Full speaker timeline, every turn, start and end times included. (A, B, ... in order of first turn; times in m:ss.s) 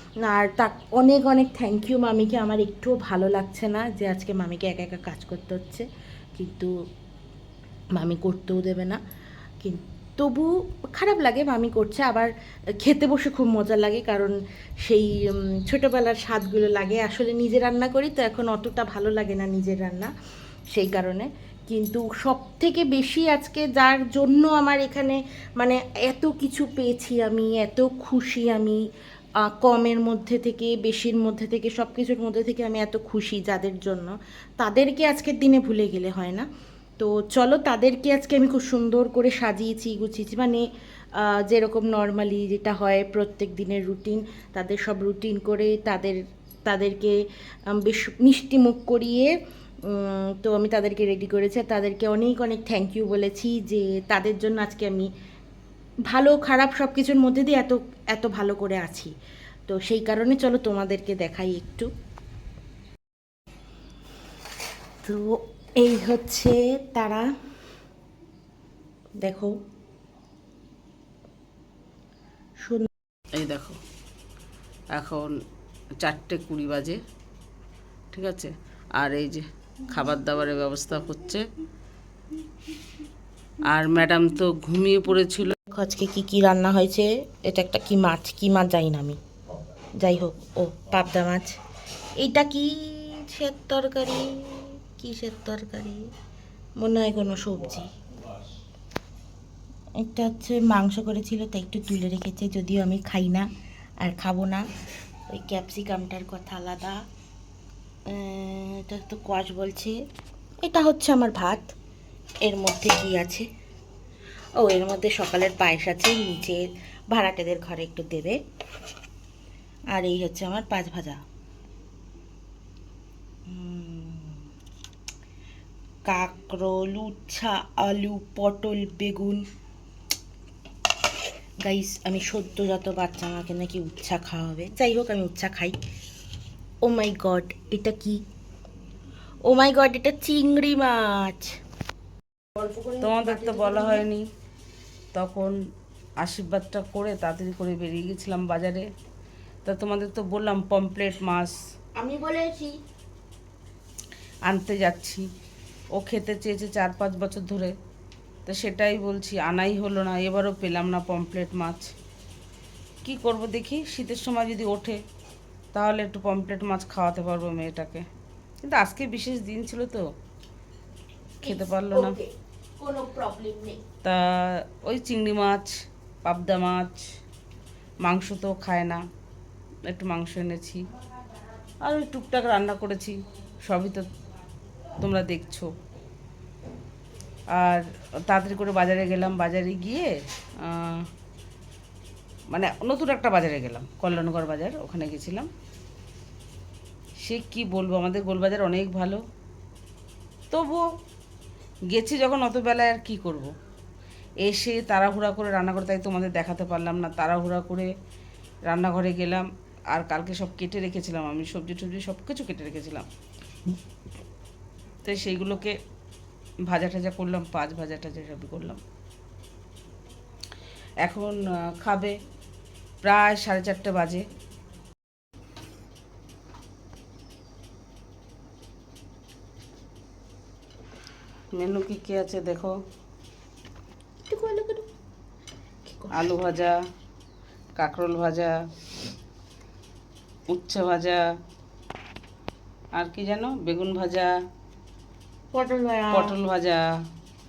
0:00.2-0:05.8 A
0:06.4-0:06.7 A
0:08.0-0:09.0 A
0:09.6-0:12.3 A
0:12.8-0:20.1 A
0:20.7-0:28.8 A
0:29.4-0:36.4 A
0:37.0-0:40.6 A
0:41.2-0:47.2 A
0:47.8-0:49.3 A
0:49.9-0:55.1 A
0:56.1-0:59.1 A
0:59.7-1:01.9 A
1:05.0-1:07.2 A
1:09.2-1:09.6 A
1:13.3-1:13.8 B
1:14.9-1:15.3 B
1:16.0-1:17.0 B
1:18.1-1:21.4 B
1:23.7-1:25.6 B
1:25.7-1:29.2 A
1:30.0-1:31.5 A
1:32.2-1:36.0 A
1:36.8-1:37.9 A
1:40.0-1:43.5 A
1:44.0-1:44.6 A
1:45.3-1:47.0 A
1:48.1-1:49.9 A
1:50.6-1:51.7 A
1:52.4-1:53.4 A
1:54.6-1:58.4 A
1:59.9-2:01.2 A
2:03.5-2:04.4 A
2:06.1-2:09.4 A
2:11.6-2:15.8 A
2:16.8-2:18.2 A
2:19.4-2:21.6 A
2:22.6-2:24.0 A
2:23.0-2:24.2 B
2:25.1-2:25.6 B
2:26.2-2:28.9 B
2:29.6-2:31.6 B
2:32.0-2:32.8 A
2:34.4-2:35.2 B
2:36.0-2:37.7 B
2:38.4-2:41.9 B
2:43.0-2:45.0 B
2:45.7-2:48.0 B
2:48.6-2:50.0 B
2:51.4-2:52.2 B
2:51.4-2:52.3 A
2:52.8-2:53.8 A
2:54.0-2:55.7 B
2:56.2-2:57.0 B
2:58.0-2:59.0 B
2:59.9-3:00.9 B
3:01.8-3:04.0 B
3:05.0-3:05.7 B
3:07.5-3:11.1 B
3:12.5-3:15.5 B
3:17.2-3:19.2 B
3:20.5-3:20.8 B
3:21.9-3:23.5 B
3:24.4-3:27.9 B
3:28.7-3:33.1 B
3:35.0-3:35.8 B
3:36.7-3:38.8 B
3:41.0-3:42.2 B
3:43.0-3:44.2 B
3:51.5-3:52.8 B
3:54.3-3:54.8 A
3:55.9-3:56.3 A
3:56.1-3:56.8 B
3:57.8-3:58.6 B
4:00.5-4:01.2 B
4:02.9-4:04.3 B
4:05.5-4:06.4 A
4:06.1-4:06.8 B